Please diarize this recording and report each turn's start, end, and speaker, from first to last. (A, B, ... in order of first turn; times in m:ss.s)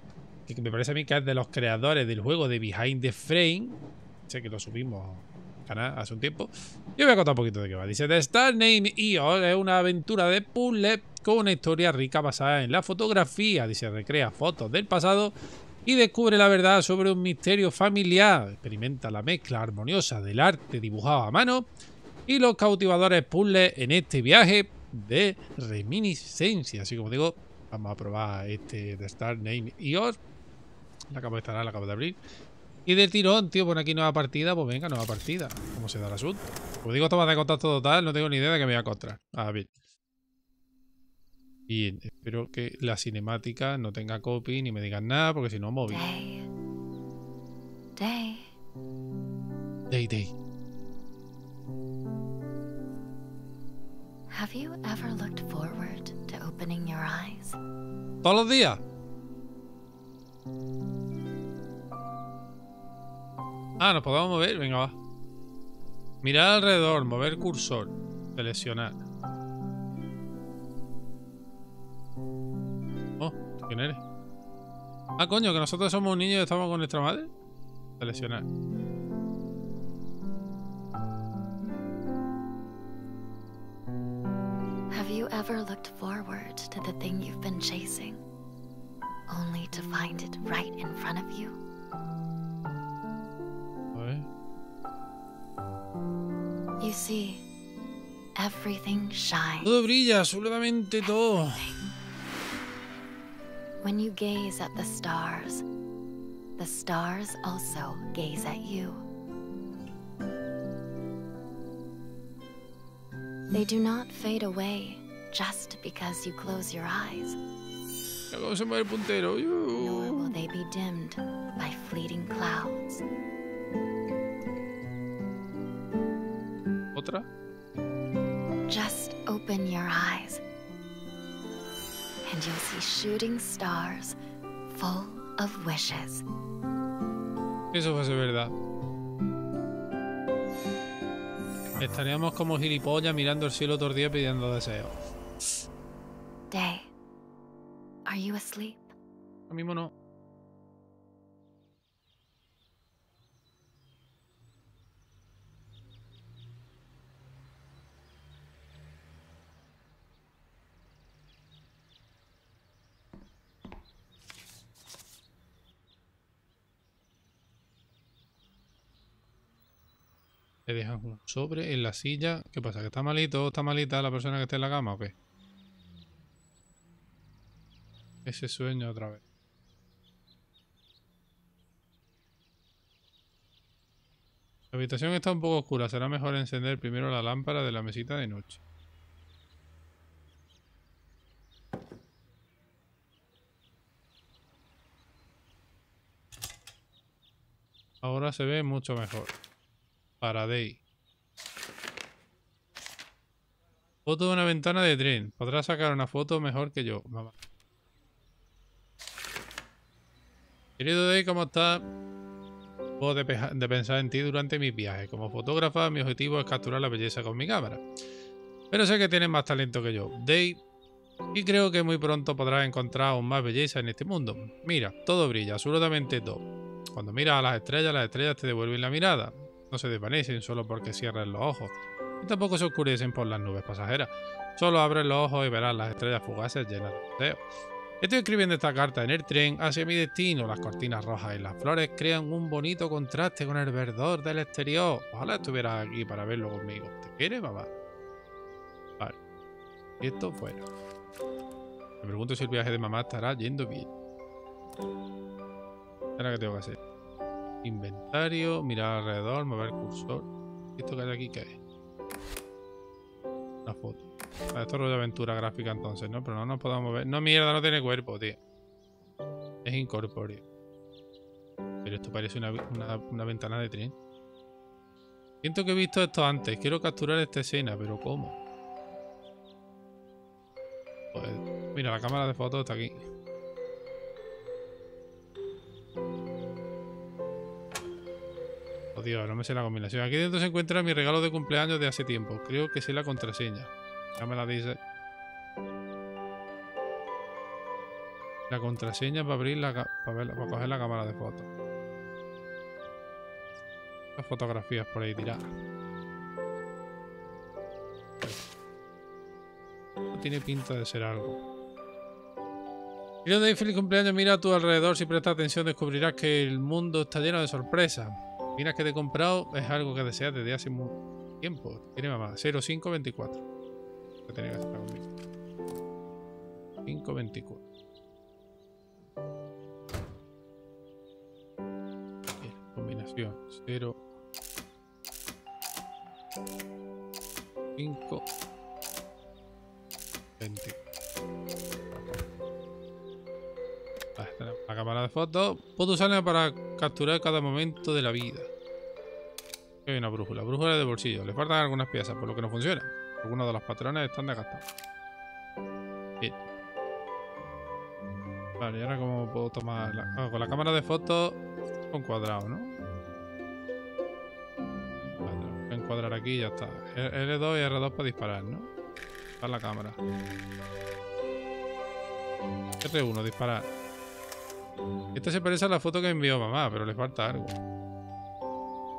0:00.5-0:21.7 A
0:22.3-0:30.2 A
0:31.1-0:32.2 A
0:32.9-0:39.7 A
0:41.7-0:46.0 A
0:45.9-0:46.5 B
0:48.0-0:48.5 B
0:49.9-0:50.3 A
0:54.3-0:57.6 B
0:58.2-0:58.8 A
1:03.8-1:05.0 A
1:06.2-1:09.0 A
1:13.2-1:14.0 A
1:15.2-1:17.3 A
1:18.0-1:18.4 A
1:24.9-1:28.2 B
1:29.3-1:31.6 B
1:33.9-1:34.3 A
1:36.8-1:37.4 B
1:38.4-1:39.7 B
1:39.6-1:41.7 A
1:43.8-1:45.6 B
1:46.6-1:49.0 B
1:53.5-1:57.4 B
1:58.3-2:00.4 A
1:59.8-2:03.0 B
2:07.0-2:07.3 A
2:08.7-2:10.4 B
2:12.3-2:14.2 B
2:14.7-2:16.2 B
2:17.7-2:18.5 A
2:21.8-2:25.0 A
2:26.5-2:26.9 B
2:28.0-2:28.9 B
2:29.5-2:29.9 A
2:50.7-2:55.1 A
2:58.2-2:59.2 A
3:04.7-3:08.6 A
3:18.0-3:19.3 A
3:20.2-3:20.8 A
3:24.0-3:27.3 A
3:30.8-3:31.8 A
3:33.0-3:37.8 A
3:38.7-3:40.6 A
3:41.3-3:57.4 A
3:58.0-4:07.7 A
4:10.0-4:10.6 A
4:12.0-4:13.9 A
4:16.2-4:16.8 A
4:17.6-4:21.6 A
4:23.7-4:28.4 A
4:29.6-4:30.4 A
4:31.8-4:34.0 A
4:35.4-4:38.4 A
4:41.1-4:43.0 A
4:49.0-4:54.8 A
4:58.5-5:01.5 A
5:04.2-5:05.5 A
5:10.1-5:11.4 A
5:13.2-5:23.4 A
5:24.3-5:25.1 A
5:26.8-5:27.6 A
5:32.4-5:34.0 A
5:37.8-5:38.2 A
5:40.4-5:40.8 A
5:44.2-5:48.5 A
5:49.8-5:54.6 A
5:58.6-6:01.4 A
6:01.9-6:02.8 A
6:05.3-6:08.7 A
6:09.4-6:10.0 A
6:12.8-6:13.7 A
6:15.2-6:17.6 A